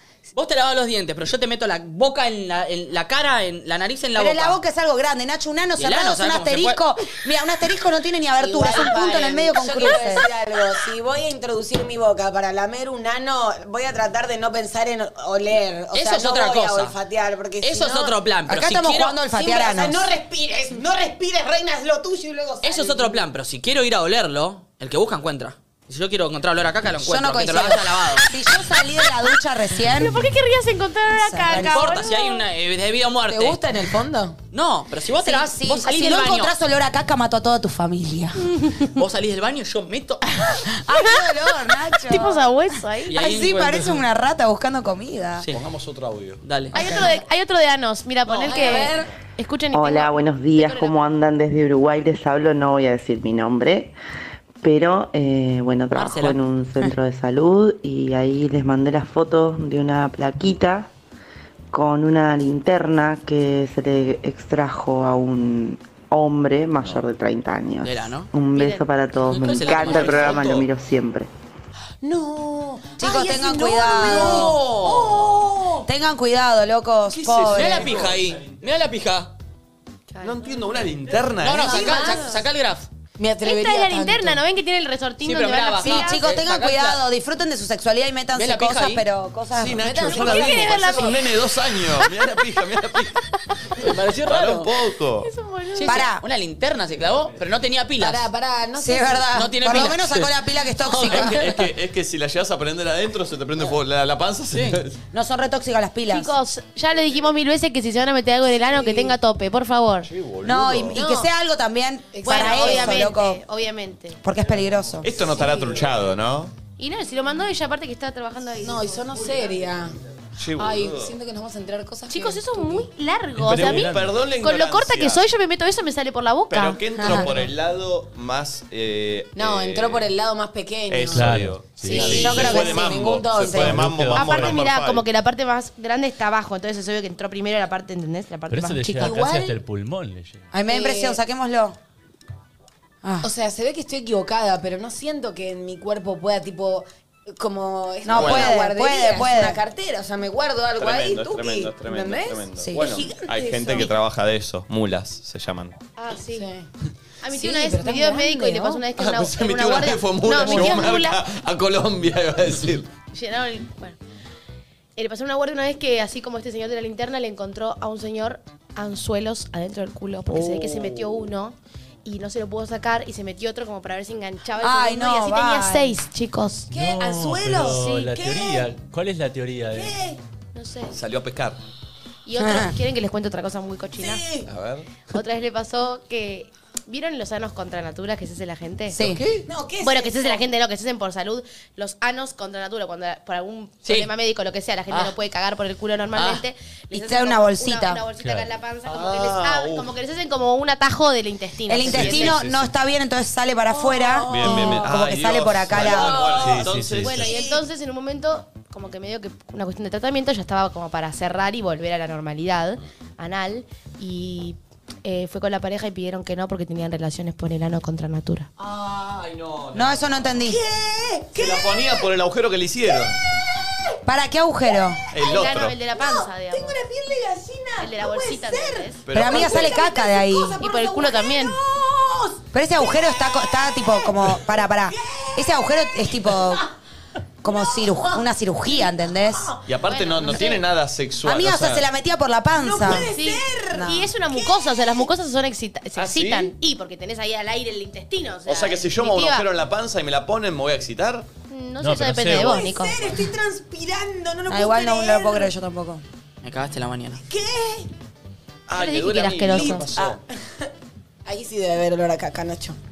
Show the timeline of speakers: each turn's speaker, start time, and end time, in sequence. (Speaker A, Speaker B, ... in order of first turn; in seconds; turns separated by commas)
Speaker A: 0.3-4.6, Speaker B: 4.2-10.3, Speaker A: 5.8-6.8, Speaker C: 8.4-18.1, Speaker A: 15.9-16.9, Speaker A: 17.6-19.2, Speaker B: 18.5-20.1, Speaker C: 19.3-23.2, Speaker A: 22.6-28.2, Speaker B: 27.0-30.2, Speaker D: 29.8-32.5, Speaker B: 31.2-32.0, Speaker A: 31.5-33.6, Speaker C: 33.3-34.4, Speaker A: 34.5-36.5, Speaker B: 35.2-38.4, Speaker D: 38.5-39.0, Speaker A: 39.0-40.3, Speaker B: 40.5-42.5, Speaker D: 42.0-43.3, Speaker A: 43.1-44.0, Speaker B: 43.1-45.5, Speaker E: 45.5-46.4, Speaker A: 46.4-46.8, Speaker D: 46.7-50.9, Speaker B: 46.7-47.0, Speaker C: 48.3-49.1, Speaker F: 49.7-53.9, Speaker F: 54.6-60.9, Speaker A: 55.9-56.4, Speaker F: 61.7-71.3, Speaker A: 67.8-68.3, Speaker D: 68.5-68.9, Speaker A: 69.2-70.6, Speaker D: 69.7-70.4, Speaker E: 69.8-70.6, Speaker C: 72.0-75.9, Speaker B: 73.0-74.5, Speaker A: 74.0-75.4, Speaker B: 75.9-78.0, Speaker E: 77.1-78.5, Speaker A: 77.5-79.3, Speaker D: 80.1-80.4, Speaker E: 80.2-82.2, Speaker A: 81.4-82.9, Speaker C: 81.6-82.4, Speaker C: 83.2-84.4, Speaker D: 83.4-86.2, Speaker A: 85.2-87.0, Speaker B: 85.8-89.9, Speaker A: 88.3-89.1, Speaker E: 89.6-93.2, Speaker C: 89.8-91.2, Speaker D: 90.1-91.3, Speaker A: 93.8-94.7, Speaker E: 94.2-95.3, Speaker D: 95.2-96.1, Speaker A: 95.8-98.3, Speaker B: 95.8-96.2, Speaker C: 98.0-99.3, Speaker B: 98.8-101.7, Speaker A: 99.3-101.4, Speaker E: 101.0-105.0, Speaker A: 104.5-104.8, Speaker B: 105.1-106.3, Speaker D: 106.1-110.1, Speaker C: 108.7-109.2, Speaker E: 110.0-111.0, Speaker B: 110.4-113.4, Speaker C: 110.9-111.3, Speaker C: 112.1-113.1, Speaker D: 112.2-114.2, Speaker B: 114.2-115.1, Speaker E: 115.0-116.5, Speaker C: 115.3-115.9, Speaker D: 116.8-119.2, Speaker C: 118.6-120.0, Speaker E: 120.4-121.2, Speaker C: 120.6-122.9, Speaker D: 122.1-127.3, Speaker G: 123.4-124.1, Speaker E: 123.4-125.2, Speaker E: 126.5-130.1, Speaker C: 129.4-134.1, Speaker E: 130.9-135.1, Speaker G: 131.1-132.3, Speaker B: 132.0-132.9, Speaker D: 132.1-132.7, Speaker G: 133.5-134.6, Speaker D: 134.1-139.2, Speaker G: 138.5-140.5, Speaker C: 138.9-139.6, Speaker B: 140.5-141.8, Speaker C: 140.7-141.2, Speaker C: 143.2-153.9, Speaker B: 148.1-149.6, Speaker E: 148.1-148.6, Speaker E: 150.8-155.8, Speaker B: 152.6-152.9, Speaker D: 156.0-156.5, Speaker C: 156.3-156.7, Speaker D: 157.2-161.2, Speaker C: 157.3-158.8, Speaker E: 159.0-162.9, Speaker C: 160.4-160.9, Speaker D: 163.1-164.0, Speaker D: 165.0-176.7, Speaker E: 170.5-171.0, Speaker B: 174.6-176.0, Speaker C: 176.7-178.7, Speaker G: 176.7-180.0, Speaker D: 177.7-178.1, Speaker C: 179.7-180.2, Speaker D: 180.6-180.9, Speaker E: 180.9-181.6, Speaker D: 182.3-184.3, Speaker B: 182.4-182.7, Speaker C: 184.0-184.5, Speaker E: 184.5-184.9, Speaker D: 185.1-189.0, Speaker B: 188.9-189.2, Speaker E: 189.0-189.4, Speaker C: 189.5-190.5, Speaker D: 189.8-202.4, Speaker A: 193.8-194.1, Speaker A: 196.1-196.4, Speaker B: 196.9-198.0, Speaker G: 198.2-198.5, Speaker E: 198.9-199.9, Speaker B: 201.7-206.2, Speaker E: 201.9-202.7, Speaker C: 203.7-204.9, Speaker E: 204.3-207.4, Speaker G: 205.7-207.2, Speaker C: 205.8-207.6, Speaker D: 206.9-218.5, Speaker E: 218.6-220.4, Speaker B: 219.8-220.6, Speaker C: 220.4-221.9, Speaker E: 221.3-223.2, Speaker C: 222.9-223.9, Speaker B: 224.1-225.0, Speaker C: 225.1-236.7, Speaker E: 225.1-225.8, Speaker D: 225.2-226.8, Speaker D: 227.8-229.0, Speaker E: 229.1-229.8, Speaker B: 229.1-230.6, Speaker D: 230.6-231.6, Speaker B: 232.5-236.7, Speaker B: 237.4-239.5, Speaker C: 237.5-239.7, Speaker E: 239.7-241.9, Speaker D: 239.8-240.6, Speaker B: 241.2-243.1, Speaker C: 242.6-245.1, Speaker D: 242.9-249.5, Speaker B: 243.8-244.1, Speaker E: 245.9-246.6, Speaker E: 248.5-251.3, Speaker D: 251.5-253.2, Speaker G: 251.8-252.7, Speaker C: 252.4-255.5, Speaker B: 254.5-256.0, Speaker A: 256.4-257.2, Speaker C: 257.3-257.9, Speaker E: 258.7-260.2, Speaker D: 258.7-259.9, Speaker C: 259.6-260.1, Speaker C: 261.2-262.8